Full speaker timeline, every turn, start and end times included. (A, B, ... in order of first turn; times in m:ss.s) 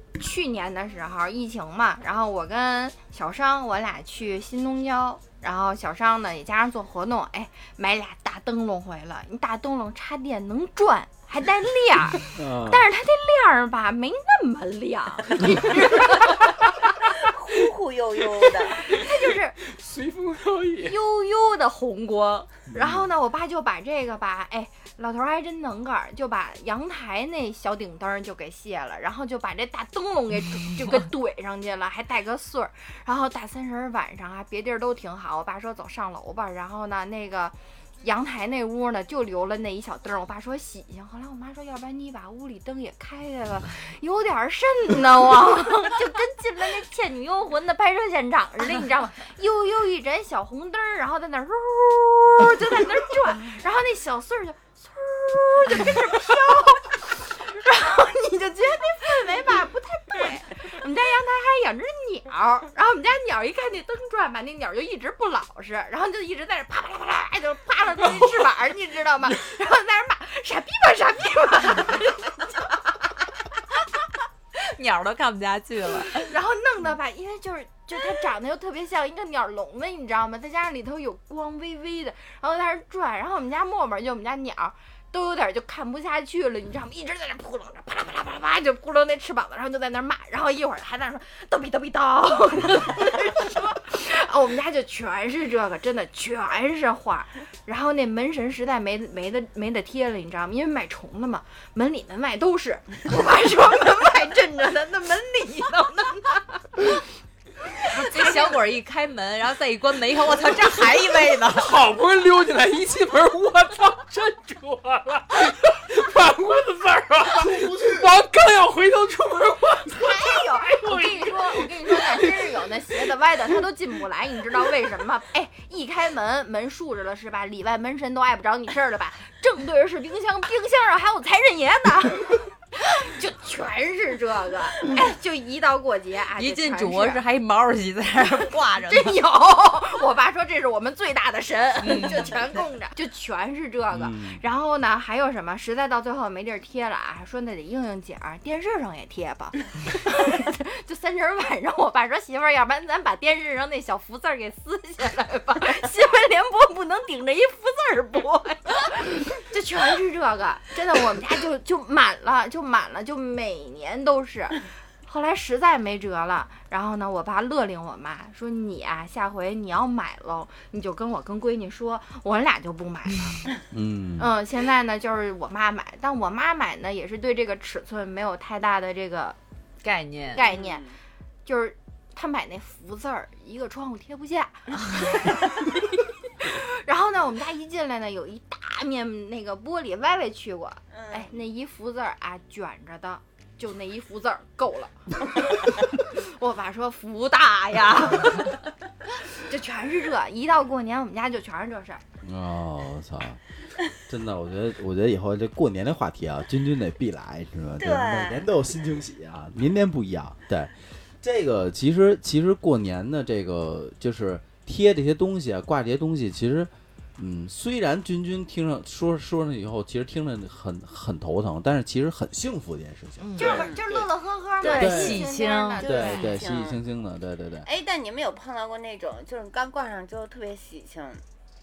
0:00.2-0:17.2 A
0:12.2-0:12.9 B
0:17.1-0:18.9 C
0:18.7-0:21.0 D
0:18.8-0:19.6 A
0:20.8-1:12.8 A
0:22.7-0:23.0 B
1:14.6-1:16.3 E
1:16.2-1:46.9 A
1:47.8-1:48.6 A
1:47.9-1:51.8 E
1:51.4-2:02.7 D
1:57.4-1:58.1 B
1:59.9-2:17.2 A
2:16.4-2:19.2 E
2:18.9-2:53.5 A
2:21.8-2:22.3 E
2:23.9-2:24.4 B
2:53.7-2:54.3 B
2:54.2-2:59.4 A
2:59.8-3:00.4 E
3:00.3-3:00.9 A
3:00.4-3:00.9 C
3:01.4-3:18.7 A
3:10.9-3:11.3 C
3:19.3-3:22.0 A
3:22.2-3:23.4 B
3:24.1-3:43.3 B
3:27.8-3:28.4 C
3:43.2-3:43.7 E
3:43.4-3:44.1 D
3:43.4-3:46.2 A
3:43.4-3:43.8 C
3:44.6-3:46.3 E
3:44.7-3:45.2 B
3:45.8-3:46.8 C
3:45.8-3:47.7 B
3:47.6-3:51.2 C